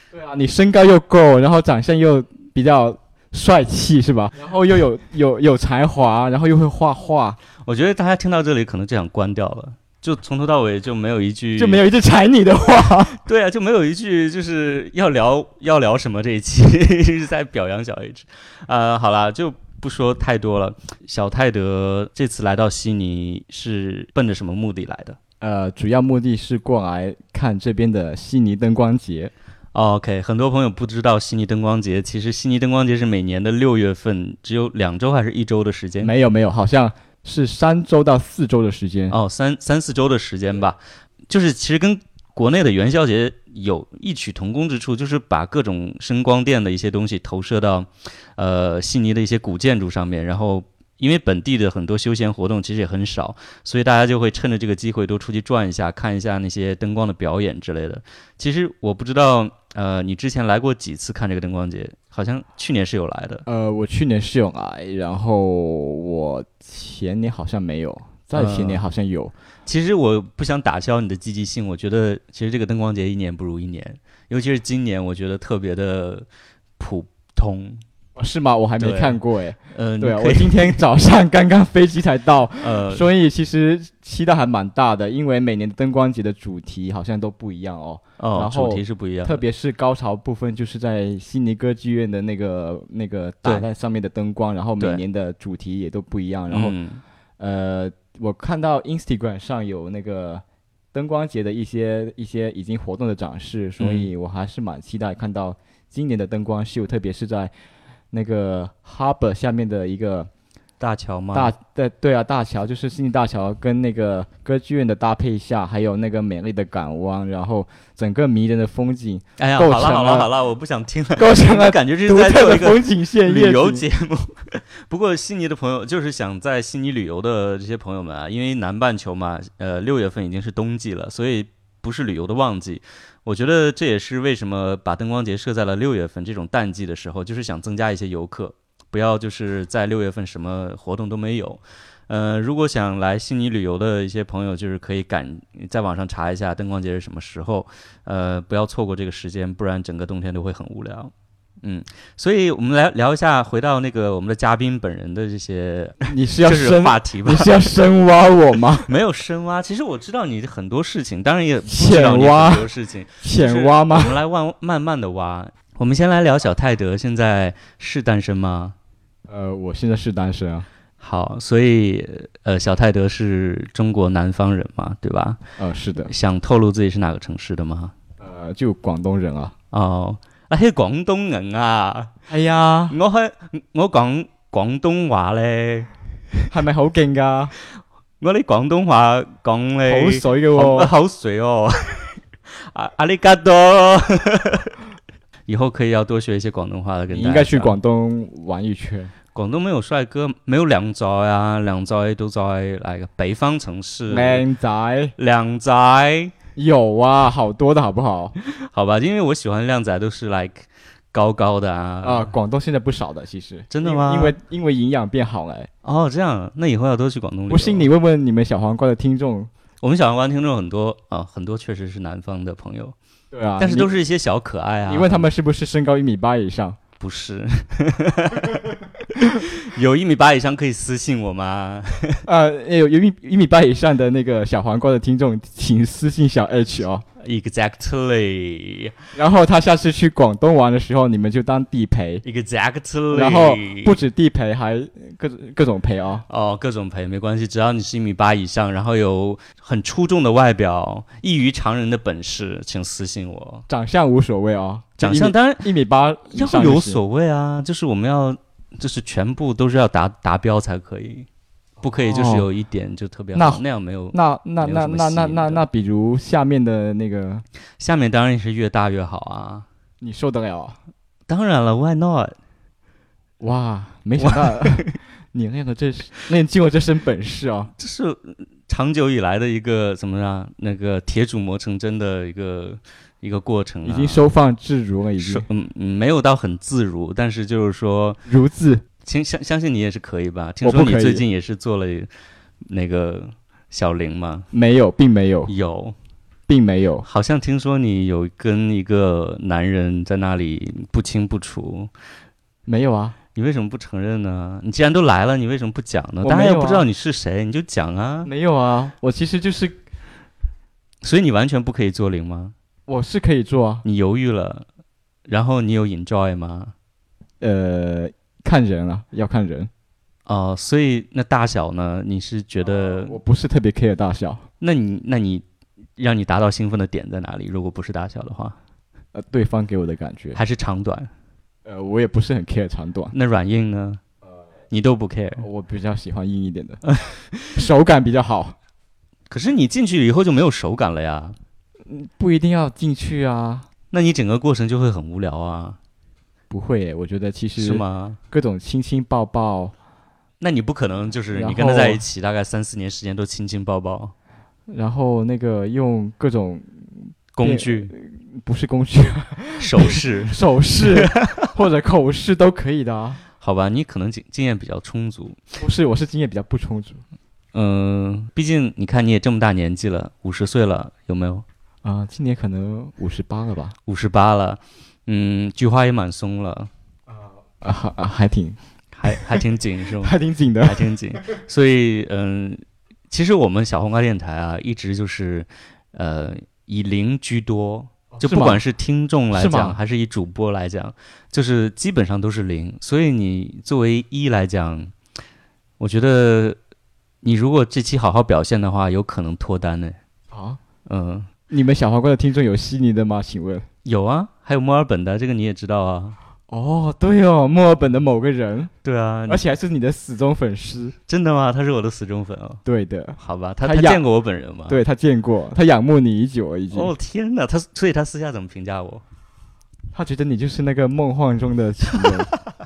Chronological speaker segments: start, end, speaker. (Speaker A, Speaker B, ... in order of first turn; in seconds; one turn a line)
Speaker A: 0.1-7.4
Speaker B: 7.6-11.8
Speaker A: 11.6-13.2
Speaker B: 13.2-25.2
Speaker A: 25.4-29.3
Speaker B: 29.7-36.1
Speaker A: 36.0-39.1
Speaker B: 39.1-63.4
Speaker A: 63.5-69.3
Speaker B: 68.3-68.8
Speaker B: 69.7-76.3
Speaker B: 76.8-77.8
Speaker A: 78.2-96.8
Speaker B: 78.8-80.8
Speaker B: 82.6-83.1
Speaker B: 88.2-89.4
Speaker B: 96.5-97.0
Speaker A: 97.4-107.5
Speaker B: 103.8-104.1
Speaker A: 108.1-110.3
Speaker B: 110.8-111.5
Speaker A: 111.3-120.3
Speaker B: 119.4-157.7
Speaker A: 121.2-123.8
Speaker A: 156.0-158.9
Speaker B: 158.8-168.8
Speaker A: 161.6-162.7
Speaker A: 163.2-164.2
Speaker A: 169.3-170.7
Speaker B: 171.0-175.4
Speaker A: 175.6-176.1
Speaker B: 176.0-177.9
Speaker A: 178.2-179.5
Speaker B: 179.7-182.1
Speaker A: 182.3-183.0
Speaker B: 182.9-185.9
Speaker A: 186.5-187.5
Speaker B: 188.2-194.8
Speaker A: 189.8-190.9
Speaker B: 195.5-197.8
Speaker A: 197.1-199.1
Speaker B: 199.3-204.5
Speaker A: 204.1-205.1
Speaker B: 205.2-206.3
Speaker A: 206.6-208.3
Speaker B: 208.4-212.3
Speaker A: 212.0-215.7
Speaker B: 213.7-214.4
Speaker B: 215.8-217.9
Speaker A: 217.5-219.5
Speaker B: 219.8-222.9
Speaker A: 223.3-223.9
Speaker B: 223.6-225.2
Speaker A: 224.8-226.8
Speaker B: 227.0-232.2
Speaker A: 232.2-237.0
Speaker B: 237.2-238.9
Speaker A: 239.1-242.2
Speaker B: 242.2-244.0
Speaker A: 243.1-246.2
Speaker B: 246.3-253.7
Speaker A: 253.7-257.0
Speaker B: 255.0-255.7
Speaker B: 256.3-261.3
Speaker B: 261.8-265.6
Speaker A: 261.9-262.5
Speaker A: 263.3-267.4
Speaker B: 267.8-269.6
Speaker A: 270.0-270.8
Speaker B: 271.3-272.4
Speaker A: 273.4-277.7
Speaker B: 274.2-274.9
Speaker B: 277.8-284.3
Speaker A: 283.8-285.4
Speaker B: 285.2-288.2
Speaker A: 288.2-288.8
Speaker B: 289.0-292.1
Speaker A: 290.6-291.2
Speaker B: 292.6-294.5
Speaker A: 294.5-295.5
Speaker B: 295.5-295.9
Speaker A: 296.5-297.1
Speaker B: 297.0-301.9
Speaker A: 302.7-303.1
Speaker B: 303.3-308.3
Speaker A: 306.2-306.9
Speaker A: 308.2-309.8
Speaker B: 311.0-312.5
Speaker A: 312.9-313.8
Speaker B: 313.8-314.6
Speaker B: 315.3-316.7
Speaker A: 317.4-319.7
Speaker B: 320.2-323.2
Speaker A: 322.6-324.4
Speaker B: 324.6-325.4
Speaker B: 326.0-328.6
Speaker A: 329.1-330.4
Speaker B: 330.3-331.1
Speaker A: 331.6-333.1
Speaker B: 333.1-334.0
Speaker B: 334.7-335.4
Speaker A: 335.4-336.8
Speaker B: 337.0-337.4
Speaker A: 337.4-338.6
Speaker B: 339.3-341.4
Speaker A: 341.9-343.7
Speaker B: 343.9-345.8
Speaker A: 346.5-349.7
Speaker B: 347.6-348.2
Speaker B: 350.4-354.1
Speaker A: 351.3-352.0
Speaker A: 354.7-363.2
Speaker B: 357.3-357.9
Speaker B: 359.6-361.4
Speaker B: 363.4-365.4
Speaker A: 365.6-367.0
Speaker B: 367.5-371.4
Speaker A: 371.8-373.7
Speaker B: 373.9-376.7
Speaker A: 377.6-378.6
Speaker B: 378.9-394.9
Speaker A: 379.1-379.4
Speaker A: 380.0-380.9
Speaker A: 388.1-388.6
Speaker A: 389.3-389.8
Speaker B: 395.8-396.6
Speaker B: 397.2-400.0
Speaker A: 400.3-400.6
Speaker B: 400.9-401.3
Speaker A: 401.5-403.6
Speaker B: 403.8-406.2
Speaker A: 406.5-408.7
Speaker B: 408.8-409.4
Speaker A: 409.3-410.9
Speaker B: 411.1-412.6
Speaker A: 412.6-414.0
Speaker B: 413.2-414.8
Speaker A: 414.7-416.9
Speaker B: 416.7-419.0
Speaker A: 419.9-422.3